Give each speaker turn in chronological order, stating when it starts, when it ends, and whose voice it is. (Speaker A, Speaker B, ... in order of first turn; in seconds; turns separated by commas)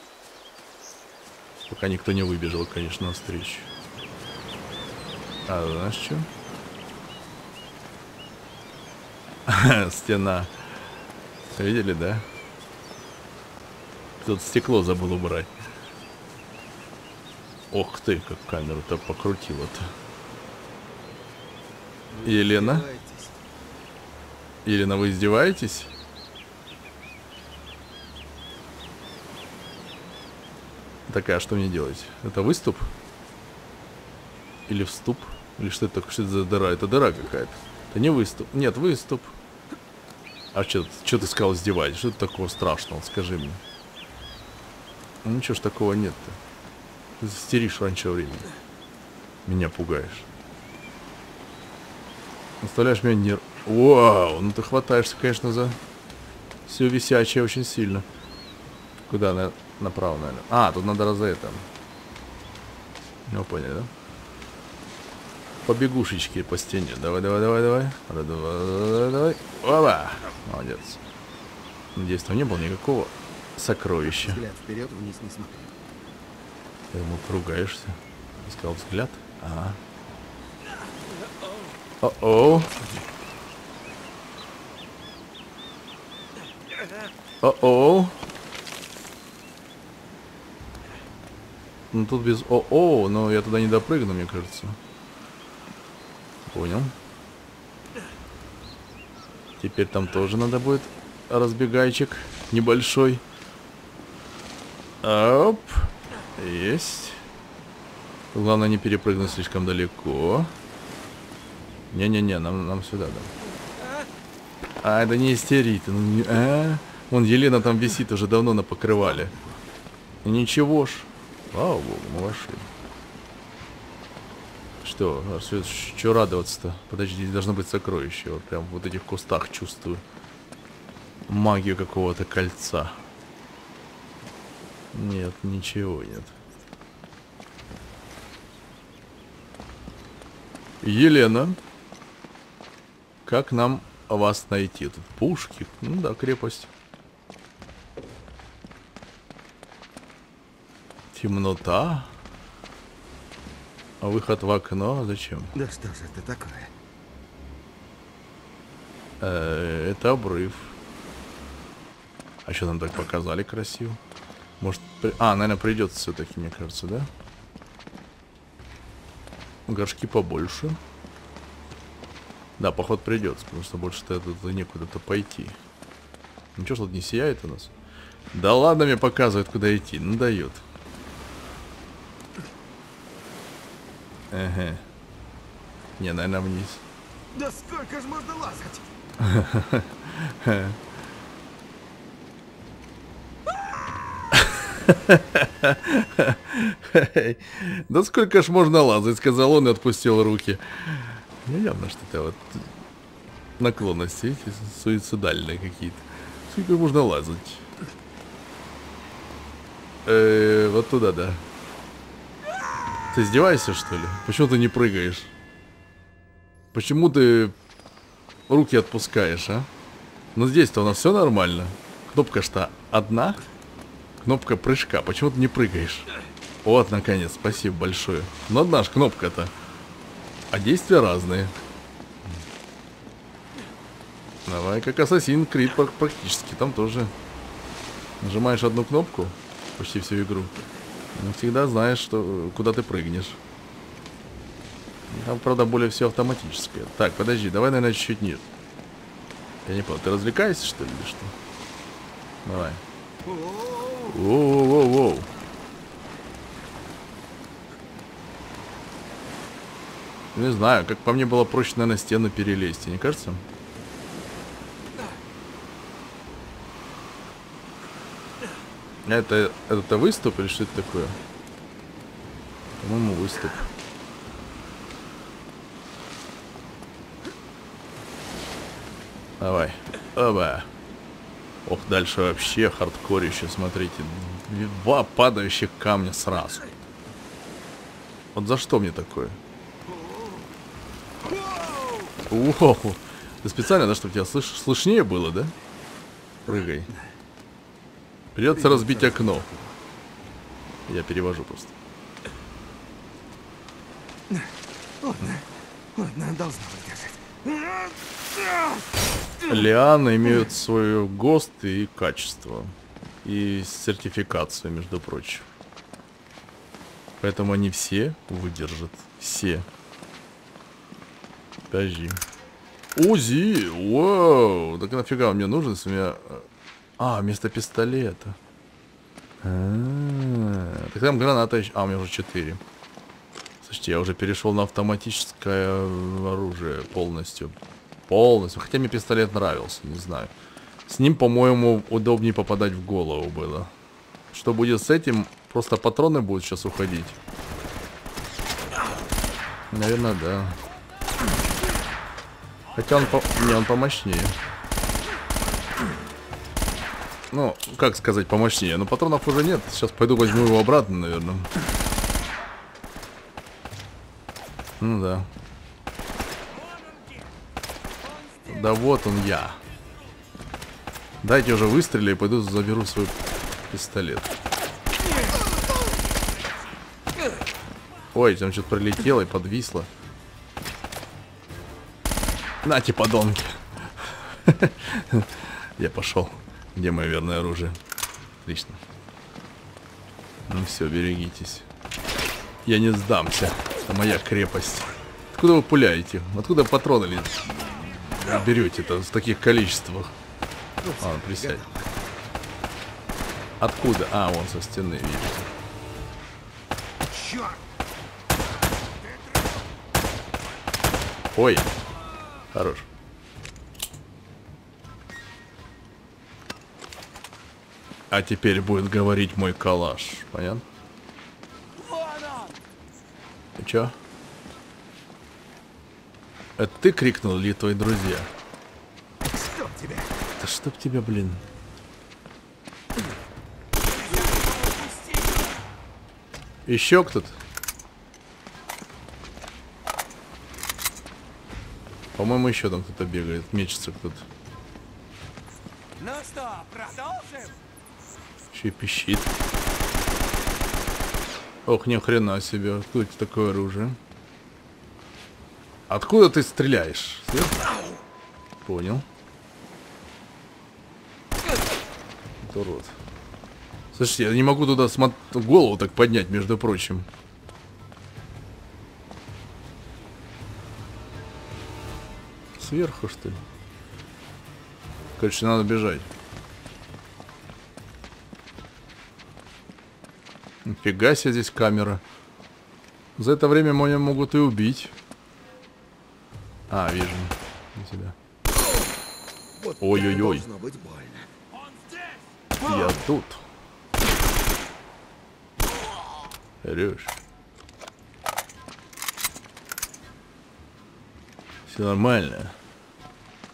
Speaker A: 1.7-3.7, Speaker A: 5.5-6.3, Speaker A: 9.5-10.5, Speaker A: 11.5-12.3, Speaker A: 14.2-15.5, Speaker A: 17.7-19.9, Speaker B: 22.1-23.4, Speaker A: 22.2-22.9, Speaker A: 24.6-25.9, Speaker A: 31.1-32.9, Speaker A: 34.7-39.3, Speaker A: 40.5-43.6, Speaker A: 45.2-46.4, Speaker A: 47.2-48.5, Speaker A: 49.5-50.3, Speaker A: 52.6-55.8, Speaker A: 56.7-58.1, Speaker A: 59.1-61.7, Speaker A: 63.3-63.9, Speaker A: 65.7-71.0, Speaker A: 72.0-74.4, Speaker B: 74.1-75.8, Speaker A: 76.9-79.8, Speaker A: 82.0-82.8, Speaker A: 87.4-88.2, Speaker A: 91.9-94.8, Speaker A: 96.5-96.9, Speaker A: 99.6-103.2, Speaker A: 105.0-107.2, Speaker A: 108.3-110.5, Speaker A: 111.9-113.3, Speaker A: 114.8-119.3, Speaker A: 120.2-122.7, Speaker A: 124.8-130.0, Speaker A: 131.3-133.0, Speaker A: 134.9-136.3, Speaker A: 140.8-141.6, Speaker A: 143.3-146.7, Speaker A: 151.1-152.1, Speaker A: 154.0-155.5, Speaker B: 155.6-156.7, Speaker A: 159.2-160.7, Speaker A: 162.5-164.0, Speaker A: 164.6-167.1, Speaker A: 169.7-170.8, Speaker A: 172.6-175.6, Speaker A: 176.6-177.7, Speaker A: 178.3-180.6, Speaker A: 184.3-184.8, Speaker A: 186.0-186.8, Speaker B: 187.3-188.9, Speaker A: 189.2-190.8, Speaker A: 194.4-202.7, Speaker A: 203.6-207.6, Speaker A: 210.1-211.4, Speaker A: 213.1-215.3, Speaker A: 216.7-217.6, Speaker A: 218.5-219.7, Speaker A: 220.3-223.4, Speaker A: 224.2-226.1, Speaker A: 226.6-229.5, Speaker A: 230.5-231.5, Speaker A: 234.5-237.1, Speaker A: 238.2-240.5, Speaker A: 241.2-243.4, Speaker A: 245.1-248.4, Speaker A: 249.7-251.3, Speaker A: 252.4-252.8, Speaker B: 253.2-254.2, Speaker A: 254.1-255.3, Speaker A: 260.4-263.4, Speaker A: 269.1-271.2, Speaker A: 272.8-273.6, Speaker A: 279.4-280.7, Speaker A: 281.6-286.7, Speaker A: 288.3-289.4, Speaker B: 289.9-290.4, Speaker B: 291.2-292.1, Speaker A: 292.3-295.5, Speaker A: 296.5-296.9, Speaker A: 298.4-299.5, Speaker B: 298.5-299.8, Speaker A: 300.9-301.8, Speaker B: 305.0-307.9, Speaker A: 309.5-315.5, Speaker A: 317.2-319.7, Speaker A: 321.7-322.2, Speaker A: 322.9-326.5, Speaker A: 327.0-328.4, Speaker A: 329.4-332.6, Speaker A: 333.6-337.6, Speaker A: 338.1-340.3, Speaker A: 340.9-343.7, Speaker A: 344.3-347.2, Speaker A: 349.7-350.6, Speaker A: 352.7-354.4, Speaker A: 357.3-361.5, Speaker A: 364.8-365.3, Speaker A: 368.5-369.6, Speaker A: 371.2-374.3, Speaker A: 378.1-379.9, Speaker A: 382.6-387.8, Speaker A: 388.4-388.8, Speaker A: 390.5-391.6, Speaker A: 392.6-400.1, Speaker B: 400.8-401.9, Speaker A: 401.0-401.6, Speaker A: 403.6-405.5, Speaker B: 407.1-407.6, Speaker A: 411.3-411.7, Speaker A: 412.5-412.9, Speaker A: 418.1-420.7, Speaker B: 422.2-422.5, Speaker A: 423.6-423.9, Speaker A: 426.6-428.3, Speaker B: 429.3-430.1, Speaker A: 430.4-431.4, Speaker A: 436.7-437.4, Speaker A: 442.1-444.3, Speaker B: 446.2-447.3, Speaker A: 448.5-449.3, Speaker A: 451.7-454.0, Speaker A: 455.9-457.7, Speaker A: 458.6-459.1, Speaker A: 462.4-462.9, Speaker A: 463.9-467.1, Speaker A: 472.6-473.4, Speaker A: 475.2-476.1, Speaker A: 480.6-482.0, Speaker A: 483.2-484.9, Speaker A: 486.7-488.2, Speaker B: 489.6-491.3, Speaker A: 489.8-490.5, Speaker A: 492.6-493.4, Speaker B: 492.6-492.9, Speaker A: 496.6-497.2, Speaker A: 501.7-502.6